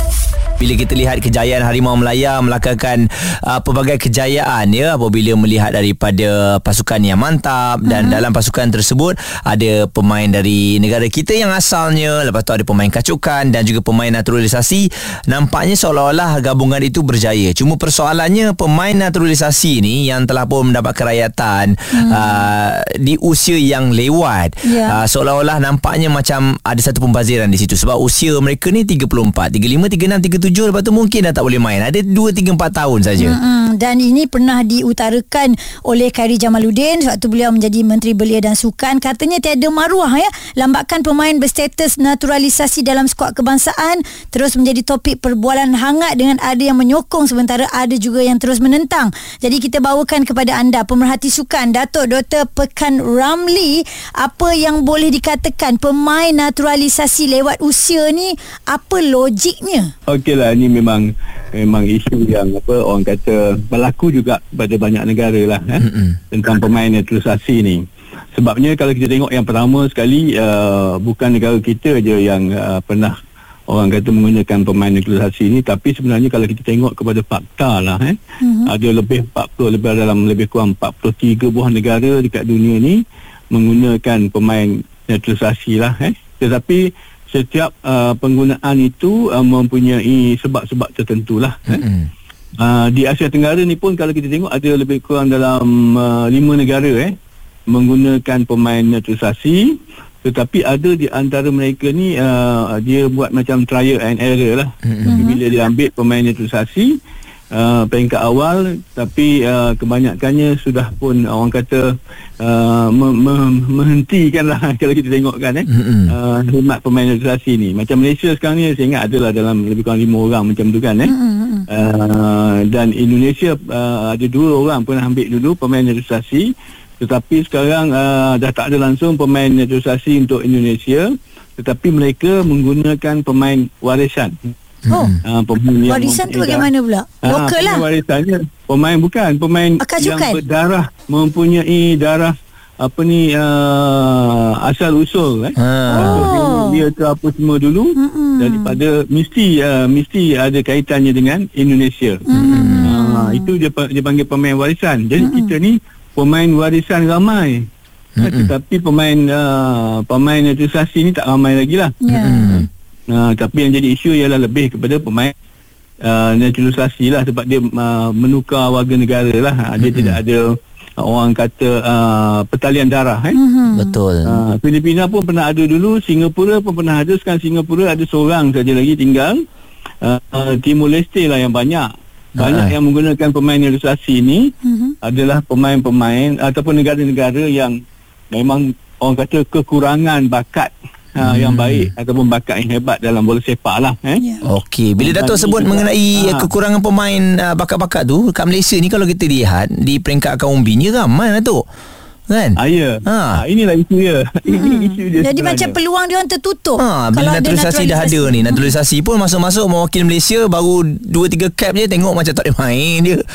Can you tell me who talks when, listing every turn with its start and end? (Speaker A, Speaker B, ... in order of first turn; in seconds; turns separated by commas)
Speaker A: 0.6-33.4, Speaker B: 7.9-8.2, Speaker B: 21.9-22.4, Speaker B: 24.6-25.0, Speaker B: 33.2-59.9, Speaker C: 60.1-67.8, Speaker A: 65.8-66.2, Speaker C: 68.4-73.2, Speaker C: 73.7-91.8, Speaker B: 78.4-78.7, Speaker A: 91.7-92.1, Speaker C: 92.6-97.1, Speaker C: 97.7-99.7, Speaker C: 100.2-107.0, Speaker A: 104.9-105.2, Speaker B: 105.0-105.4, Speaker C: 107.5-121.1, Speaker A: 115.7-116.1, Speaker B: 121.0-121.7, Speaker C: 121.7-134.5, Speaker A: 134.9-135.2, Speaker B: 134.9-135.1, Speaker C: 135.2-136.7, Speaker B: 135.9-137.9, Speaker C: 137.2-152.2, Speaker B: 139.8-140.4, Speaker A: 145.6-146.3, Speaker B: 145.9-146.8, Speaker B: 148.0-148.8, Speaker B: 152.3-153.5, Speaker A: 152.3-152.9, Speaker C: 152.8-157.7, Speaker B: 155.2-155.5, Speaker A: 158.2-158.5, Speaker C: 158.2-162.0, Speaker B: 162.1-162.7, Speaker A: 162.1-162.7, Speaker C: 163.1-165.3, Speaker C: 166.0-173.4, Speaker A: 169.8-170.2, Speaker B: 173.3-173.9, Speaker A: 173.7-174.4, Speaker C: 174.3-179.4, Speaker C: 180.0-187.8, Speaker A: 182.4-182.7, Speaker B: 184.6-184.9, Speaker C: 188.3-194.2, Speaker A: 191.2-191.9, Speaker A: 194.4-201.6, Speaker C: 195.0-196.5, Speaker A: 202.3-203.4, Speaker C: 202.6-205.8, Speaker B: 204.5-208.7, Speaker A: 206.8-213.2